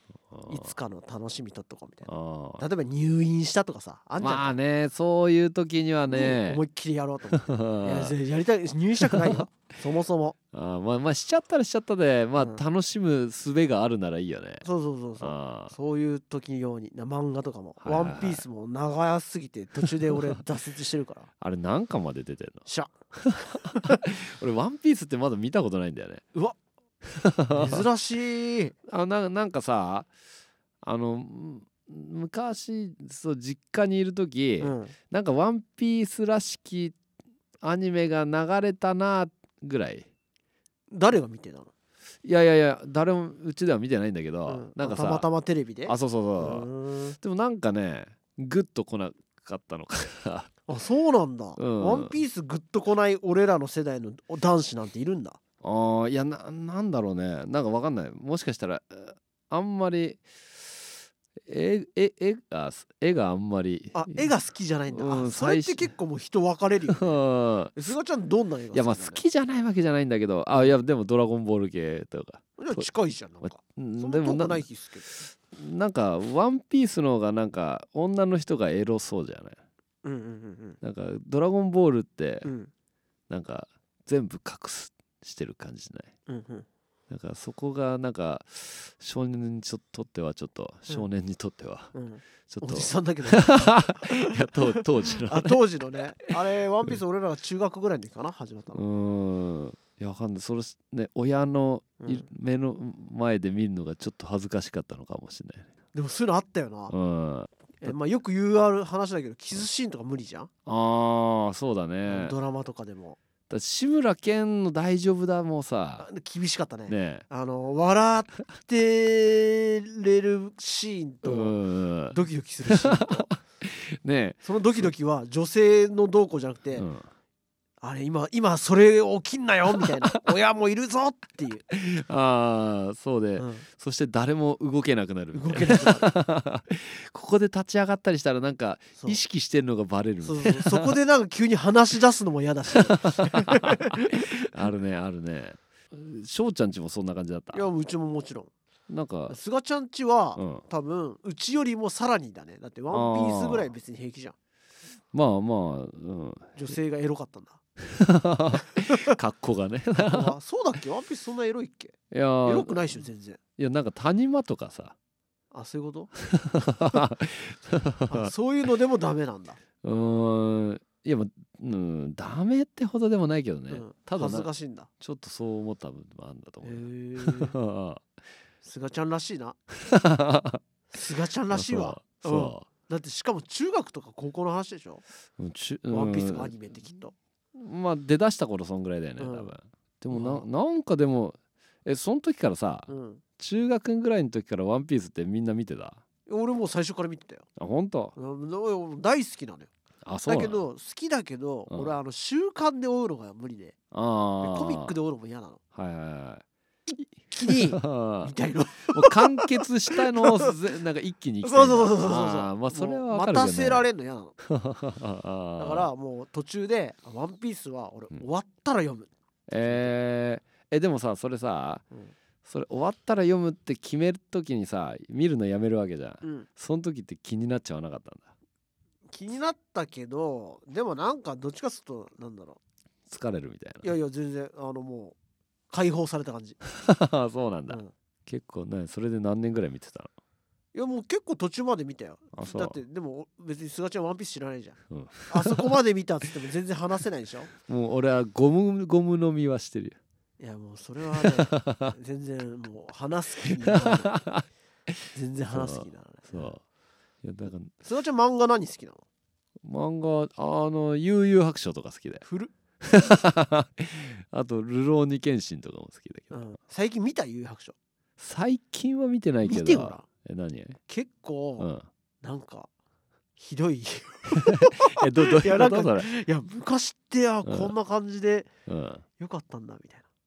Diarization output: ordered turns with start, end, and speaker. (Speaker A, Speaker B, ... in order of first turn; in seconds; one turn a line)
Speaker A: 0.3-0.7
Speaker B: 0.5-4.5
Speaker A: 2.1-2.6
Speaker A: 4.2-6.6
Speaker B: 6.1-10.4
Speaker A: 7.3-8.2
Speaker A: 9.0-9.5
Speaker A: 10.5-14.7
Speaker B: 14.6-21.3
Speaker A: 15.2-15.8
Speaker A: 17.8-18.4
Speaker A: 19.8-20.4
Speaker A: 21.4-22.6
Speaker B: 22.7-24.0
Speaker A: 23.2-26.2
Speaker A: 27.0-27.9
Speaker B: 27.5-28.8
Speaker A: 28.9-30.1
Speaker A: 30.8-37.0
Speaker B: 34.6-34.9
Speaker A: 37.6-40.1
Speaker B: 40.9-41.7
Speaker A: 42.2-45.3
Speaker B: 44.5-47.2
Speaker A: 45.9-46.7
Speaker A: 47.2-50.5
Speaker B: 50.7-55.4
Speaker A: 51.6-52.1
Speaker A: 55.6-60.7
Speaker A: 61.5-64.3
Speaker B: 63.9-67.2
Speaker A: 64.9-65.9
Speaker A: 66.9-67.8
Speaker B: 67.7-69.2
Speaker A: 68.7-72.9
Speaker B: 72.6-75.2
Speaker A: 73.4-74.7
Speaker A: 75.3-79.6
Speaker B: 80.0-80.8
Speaker A: 80.8-82.5
Speaker B: 82.4-82.7
Speaker A: 83.3-86.1
Speaker B: 86.3-86.7
Speaker A: 87.1-91.9
Speaker B: 91.9-98.8
Speaker A: 92.5-96.3
Speaker A: 98.7-105.7
Speaker B: 102.0-102.3
Speaker B: 105.9-106.9
Speaker A: 106.9-107.9
Speaker B: 107.8-110.5
Speaker A: 110.7-112.3
Speaker B: 112.1-113.2
Speaker A: 113.5-116.1
Speaker B: 116.0-121.6
Speaker A: 116.9-117.2
Speaker A: 121.2-124.9
Speaker B: 122.1-123.3
Speaker B: 124.4-126.9
Speaker A: 126.8-127.1
Speaker B: 127.8-131.7
Speaker A: 131.7-140.9
Speaker B: 133.4-133.7
Speaker B: 135.3-136.1
Speaker B: 140.2-144.6
Speaker A: 142.8-147.7
Speaker B: 147.5-148.5
Speaker A: 148.9-149.4
Speaker B: 149.3-154.3
Speaker A: 150.4-150.6
Speaker A: 152.9-153.7
Speaker A: 155.1-156.7
Speaker B: 156.6-157.6
Speaker A: 157.8-160.4
Speaker B: 158.8-159.2
Speaker B: 160.0-163.4
Speaker A: 162.1-163.0
Speaker A: 163.6-164.9
Speaker B: 165.5-166.1
Speaker A: 166.2-168.3
Speaker B: 168.1-169.6
Speaker A: 169.8-174.5
Speaker B: 173.7-174.9
Speaker A: 175.0-178.1
Speaker B: 176.6-177.6
Speaker B: 178.6-179.6
Speaker A: 179.8-180.6
Speaker B: 180.9-185.0
Speaker A: 181.5-182.7
Speaker A: 185.4-186.6
Speaker B: 185.9-187.1
Speaker A: 187.6-196.0
Speaker B: 189.2-189.5
Speaker B: 190.1-190.4
Speaker B: 192.9-193.2
Speaker B: 196.3-197.5
Speaker A: 197.6-198.2
Speaker B: 198.2-199.7
Speaker A: 200.0-200.6
Speaker B: 200.3-203.8
Speaker A: 201.7-201.9
Speaker A: 203.9-204.9
Speaker B: 204.4-205.6
Speaker A: 205.7-206.4
Speaker B: 207.3-210.6
Speaker A: 207.4-208.3
Speaker A: 208.8-213.9
Speaker B: 211.4-214.3
Speaker A: 214.4-215.9
Speaker B: 215.6-219.1
Speaker A: 219.5-221.8
Speaker B: 219.6-219.9
Speaker A: 222.4-228.3
Speaker B: 229.1-232.6
Speaker A: 233.1-233.9
Speaker B: 233.8-235.2
Speaker B: 235.7-236.6
Speaker A: 236.7-240.1
Speaker B: 240.7-247.5
Speaker A: 242.3-242.8
Speaker A: 244.9-245.7
Speaker A: 247.6-250.0
Speaker B: 250.4-254.1
Speaker A: 251.1-251.9
Speaker A: 253.5-254.9
Speaker B: 255.1-256.5
Speaker A: 255.5-256.6
Speaker A: 257.2-257.7
Speaker B: 257.8-259.0
Speaker A: 259.6-262.2
Speaker B: 262.2-262.5
Speaker A: 262.8-266.3
Speaker B: 266.3-267.8
Speaker A: 268.2-270.8
Speaker B: 269.4-270.1
Speaker B: 270.9-271.7
Speaker A: 271.6-271.9
Speaker B: 272.2-272.7
Speaker B: 273.4-278.5
Speaker A: 274.4-276.1
Speaker A: 277.5-277.7
Speaker A: 278.7-279.0
Speaker B: 279.2-280.1